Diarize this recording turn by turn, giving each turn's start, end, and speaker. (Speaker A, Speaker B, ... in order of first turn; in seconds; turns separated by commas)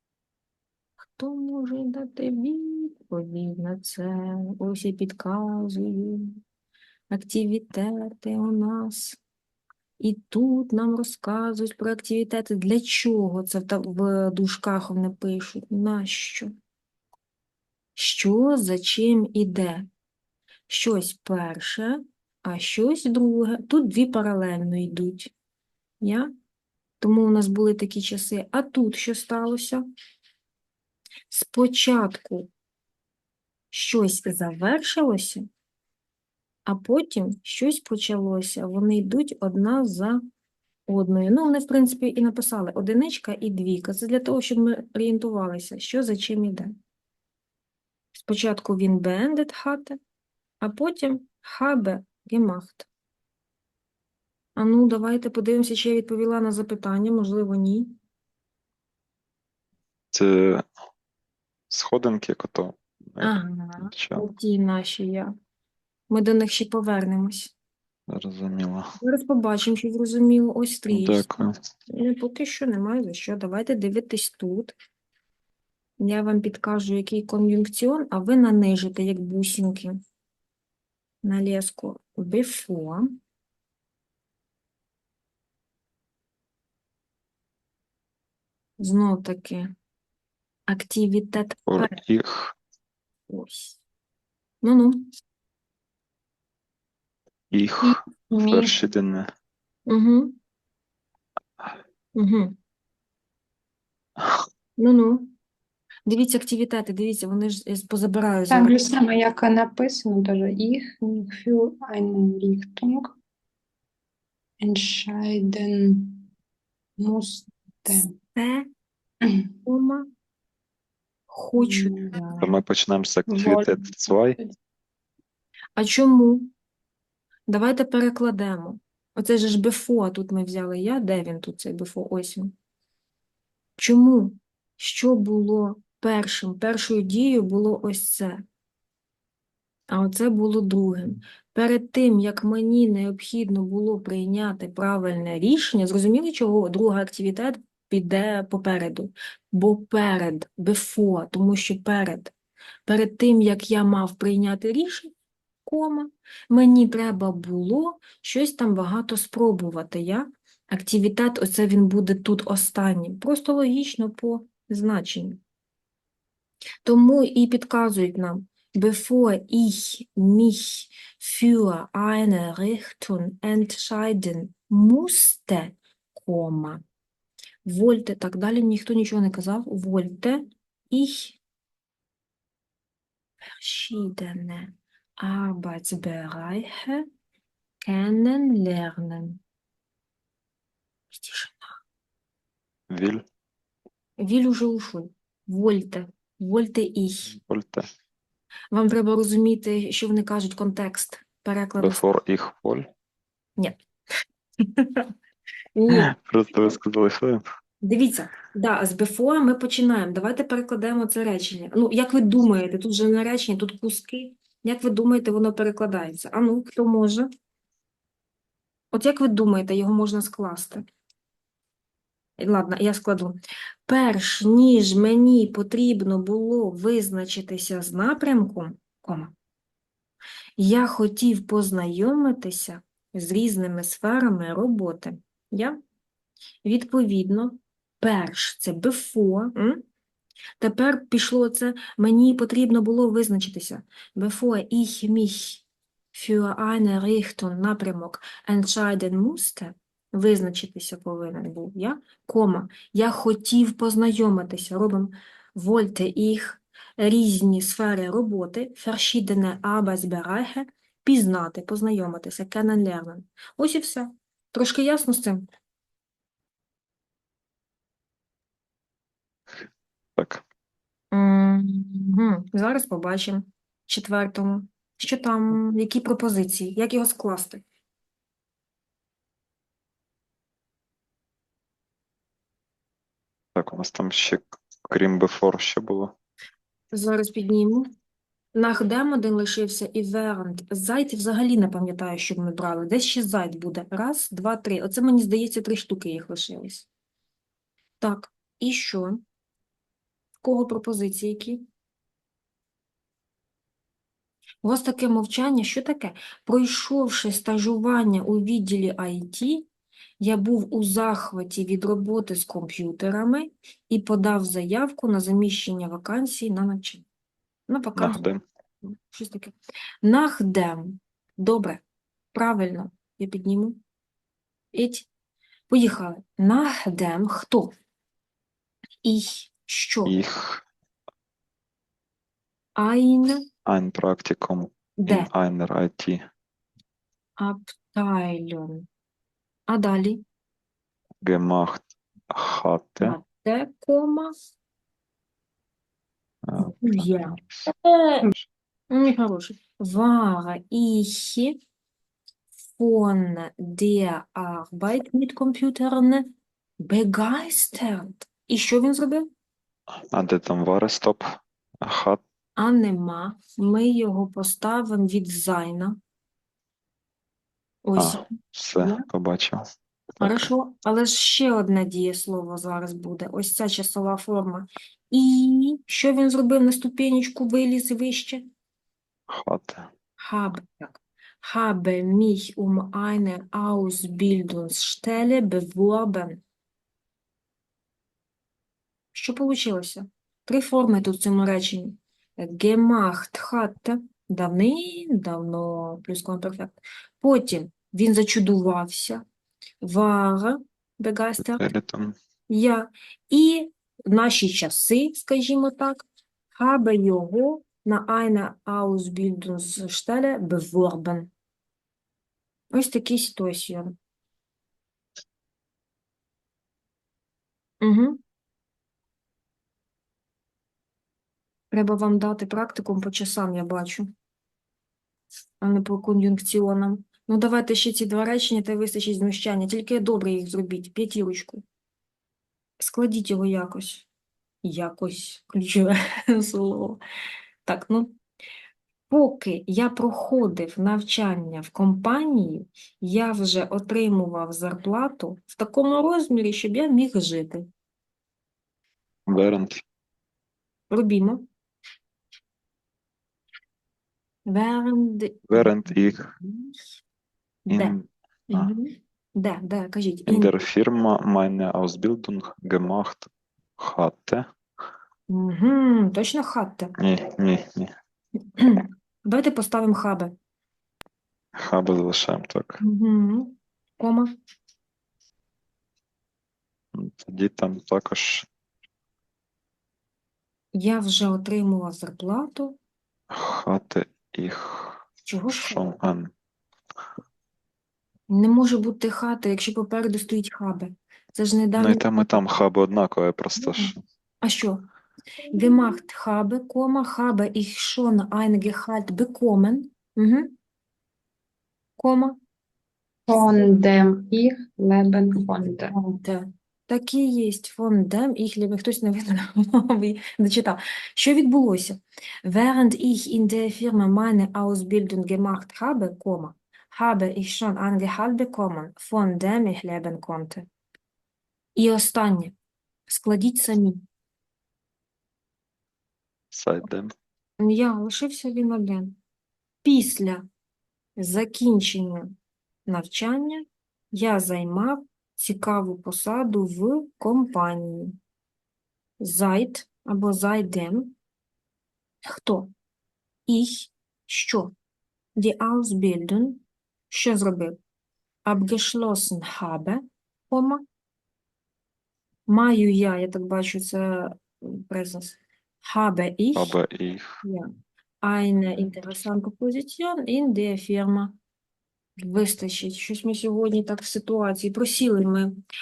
Speaker A: 1.0-6.4, Speaker A: 7.1-9.2, Speaker A: 10.0-16.5, Speaker A: 18.0-19.9, Speaker A: 20.7-25.3, Speaker A: 26.0-26.3, Speaker A: 27.0-29.8, Speaker A: 31.3-32.5, Speaker A: 33.7-35.5, Speaker A: 36.7-40.2, Speaker A: 40.9-46.8, Speaker A: 48.1-50.0, Speaker A: 50.6-52.9, Speaker A: 54.6-58.0, Speaker B: 60.1-60.7, Speaker B: 61.7-64.3, Speaker A: 63.2-65.3, Speaker A: 66.1-67.5, Speaker B: 68.1-69.0, Speaker A: 69.0-74.7, Speaker B: 70.9-71.5, Speaker A: 76.0-80.0, Speaker A: 81.2-83.1, Speaker A: 88.8-89.7, Speaker A: 90.7-92.0, Speaker B: 91.7-92.5, Speaker A: 93.3-93.8, Speaker A: 94.6-95.0, Speaker B: 97.5-99.3, Speaker C: 97.8-98.8, Speaker A: 99.9-100.3, Speaker A: 102.2-102.6, Speaker B: 104.2-104.4, Speaker A: 104.8-105.3, Speaker A: 106.1-109.0, Speaker C: 108.5-113.1, Speaker C: 114.6-116.3, Speaker C: 117.0-118.1, Speaker A: 118.3-118.7, Speaker C: 119.2-119.5, Speaker A: 119.7-120.1, Speaker A: 121.3-122.5, Speaker C: 121.6-122.2, Speaker B: 122.4-124.4, Speaker C: 123.3-124.5, Speaker A: 125.8-126.5, Speaker A: 127.5-132.5, Speaker A: 133.8-138.4, Speaker A: 139.9-152.3, Speaker A: 152.9-155.1, Speaker A: 155.7-165.4, Speaker A: 166.8-176.8, Speaker A: 177.7-181.4, Speaker A: 183.4-187.1, Speaker A: 187.8-189.4, Speaker A: 191.1-191.8, Speaker B: 192.9-193.2, Speaker A: 194.2-197.3, Speaker B: 197.3-197.9, Speaker A: 198.7-202.0, Speaker B: 201.8-202.9, Speaker A: 204.6-205.1, Speaker A: 205.8-206.1, Speaker B: 205.9-207.4, Speaker A: 207.8-217.3, Speaker A: 218.9-220.8, Speaker A: 222.4-229.3, Speaker A: 230.6-235.8, Speaker A: 236.6-239.8, Speaker A: 240.6-265.5, Speaker B: 269.5-270.4, Speaker A: 271.1-277.6, Speaker B: 283.6-286.1, Speaker A: 286.9-287.9, Speaker A: 288.6-296.9, Speaker A: 298.0-299.2, Speaker A: 300.4-301.7, Speaker A: 304.6-309.7, Speaker A: 310.2-317.1, Speaker A: 317.7-318.3, Speaker B: 318.0-318.4, Speaker A: 318.8-321.8, Speaker A: 322.3-323.8, Speaker A: 324.7-325.1, Speaker A: 325.7-327.7, Speaker A: 329.0-330.1, Speaker B: 330.1-330.6, Speaker A: 332.8-333.4, Speaker B: 333.6-336.2, Speaker A: 335.0-335.3, Speaker A: 337.4-338.9, Speaker A: 339.7-340.2, Speaker B: 341.2-343.2, Speaker A: 343.0-344.3, Speaker B: 346.4-347.7, Speaker A: 346.6-348.2, Speaker A: 348.9-351.6, Speaker A: 352.7-356.3, Speaker A: 356.8-359.3, Speaker B: 359.9-362.2, Speaker A: 362.6-366.0, Speaker A: 367.9-369.1, Speaker B: 368.0-369.6, Speaker B: 370.2-370.5, Speaker A: 370.2-378.5, Speaker B: 379.3-379.9, Speaker A: 380.2-386.4, Speaker A: 389.1-399.2, Speaker A: 399.8-401.7, Speaker B: 401.5-402.2, Speaker A: 402.5-411.3, Speaker A: 412.7-414.0, Speaker A: 417.8-418.2, Speaker A: 421.7-424.1, Speaker A: 425.6-431.6, Speaker A: 432.8-434.1, Speaker A: 434.6-437.0, Speaker A: 437.6-438.1, Speaker A: 439.1-447.7, Speaker B: 449.3-449.8, Speaker A: 450.9-451.5, Speaker A: 454.5-456.8, Speaker B: 455.5-456.3, Speaker A: 457.7-458.0, Speaker B: 457.7-458.7, Speaker A: 458.5-460.6, Speaker B: 460.3-464.5, Speaker A: 465.3-466.9, Speaker B: 467.0-467.9, Speaker A: 468.6-470.4, Speaker B: 471.6-472.8, Speaker A: 472.8-474.3, Speaker B: 476.9-478.5, Speaker A: 480.8-482.8, Speaker B: 483.3-486.3, Speaker A: 485.2-485.9, Speaker A: 488.3-492.1, Speaker B: 491.8-494.0, Speaker A: 493.6-494.8, Speaker A: 495.5-500.5, Speaker A: 502.0-502.4, Speaker C: 503.3-505.9, Speaker A: 505.9-520.7, Speaker A: 521.8-522.5, Speaker A: 523.1-524.0, Speaker B: 526.5-527.1, Speaker A: 527.6-529.2, Speaker A: 529.8-530.5, Speaker A: 531.2-532.4, Speaker A: 532.9-538.2, Speaker A: 539.2-541.1, Speaker A: 542.3-542.7, Speaker A: 543.5-544.7, Speaker A: 545.4-547.8, Speaker A: 548.5-550.8, Speaker A: 552.5-556.8, Speaker B: 556.5-557.4, Speaker A: 557.4-557.7, Speaker A: 558.2-561.4, Speaker A: 562.2-565.6